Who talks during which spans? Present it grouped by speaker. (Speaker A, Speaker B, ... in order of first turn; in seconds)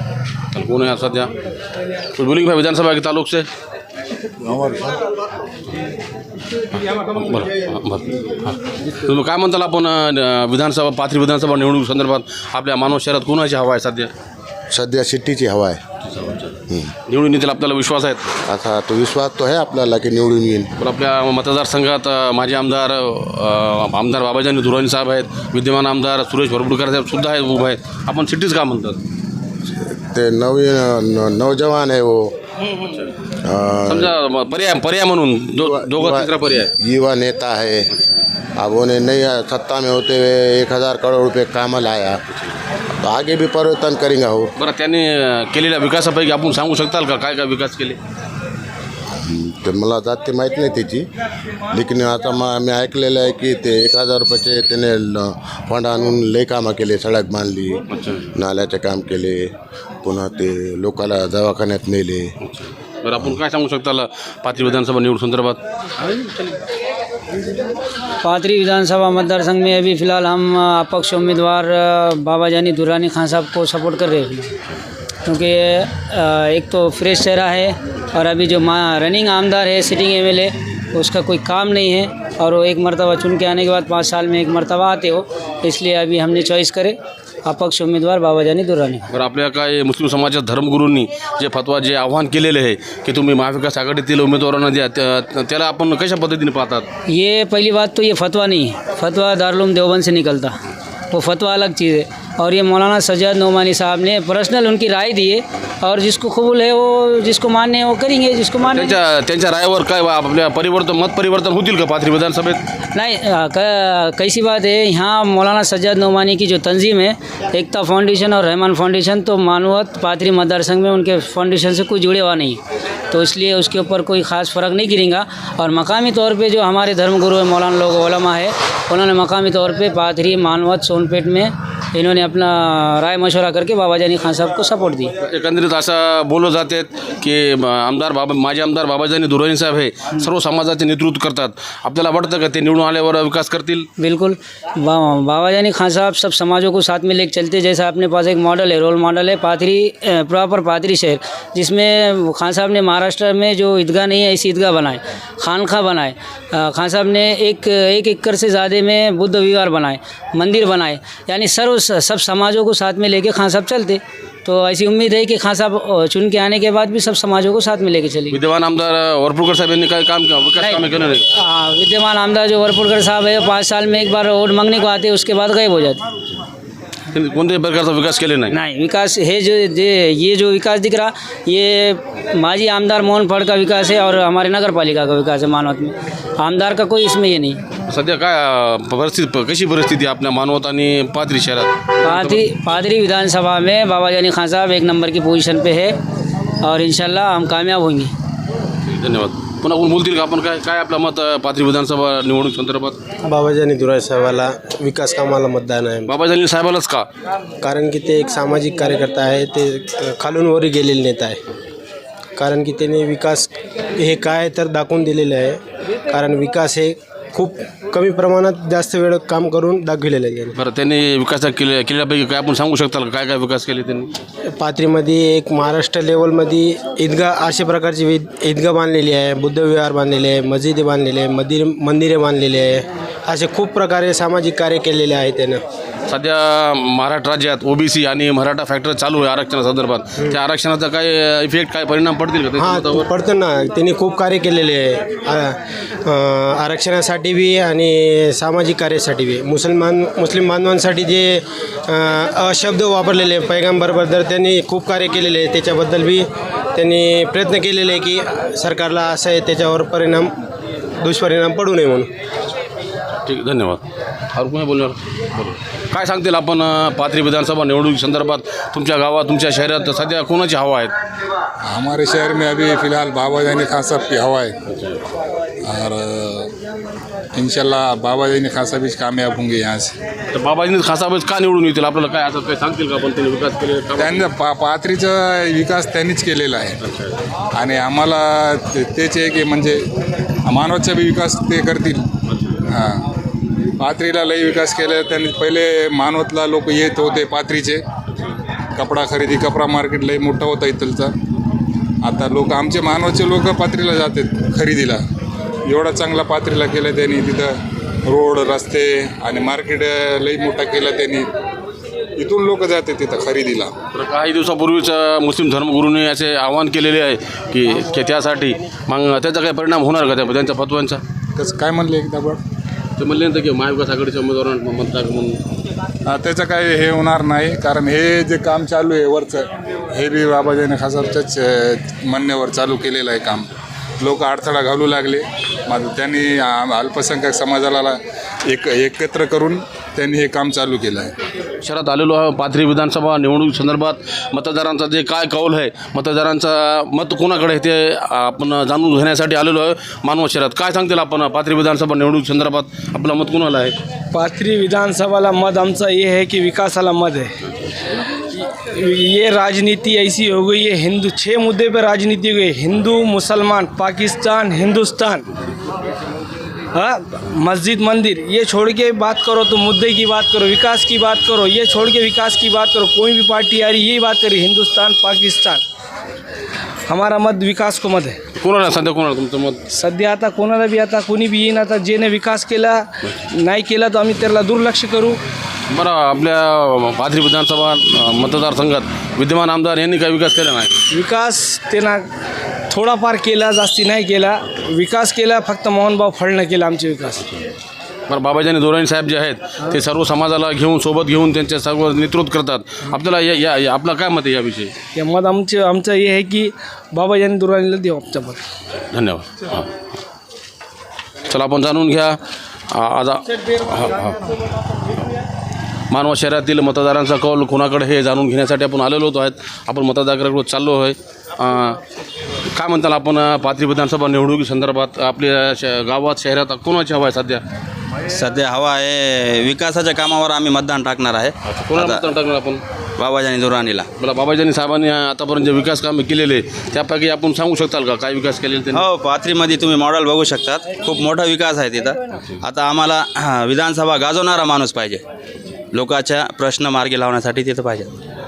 Speaker A: 0.5-1.3, 2.1-3.5, 6.8-14.1, 16.1-16.6, 17.1-18.3, 20.8-29.0, 33.9-36.7, 44.6-48.0, 57.9-58.2, 62.4-65.6, 89.1-96.9, 108.7-112.6, 135.2-143.9, 168.3-171.3, 177.1-178.6, 187.9-192.4, 198.8-203.0, 206.1-207.1, 220.5-224.1, 236.1-243.1, 263.2-270.9, 274.7-275.0, 280.3-284.3, 286.8-287.1, 292.3-292.6, 313.9-321.0, 323.0-325.4, 341.6-353.8, 378.4-379.6, 385.7-390.8, 398.1-404.7, 408.9-409.7, 411.3-412.2, 412.7-414.2, 415.9-421.8, 422.5-427.4, 431.5-432.6, 434.0-438.8
Speaker B: 14.7-15.8, 18.5-20.7, 29.9-32.4, 33.4-34.1, 35.6-37.9, 38.6-42.2, 43.0-44.5, 49.2-51.1, 51.7-57.8, 58.3-59.5, 60.0-62.3
Speaker C: 68.2-74.5, 75.2-89.0, 97.1-100.6, 101.1-109.0, 112.9-122.6, 123.1-135.1, 144.0-168.4, 170.6-176.0, 178.5-187.6, 192.0-196.0, 196.6-198.1
Speaker D: 203.2-206.1, 207.6-211.4, 212.4-220.5, 224.6-235.6, 242.6-260.3, 261.0-262.1
Speaker E: 271.6-274.5, 275.6-276.5, 277.3-279.9, 284.0-286.8, 287.5-289.8, 290.4-292.0, 292.7-293.1, 293.8-297.8, 298.8-301.1, 302.0-305.0, 305.7-307.5, 308.1-311.3, 312.2-313.7, 321.4-322.4, 326.1-333.5, 334.0-341.1
Speaker F: 354.1-357.3, 358.3-365.2, 366.7-375.6, 376.9-378.1, 379.7-385.2, 390.9-392.0, 392.7-397.2, 404.9-408.4
Speaker G: 428.1-432.0, 433.0-433.9, 438.7-445.0, 445.7-448.0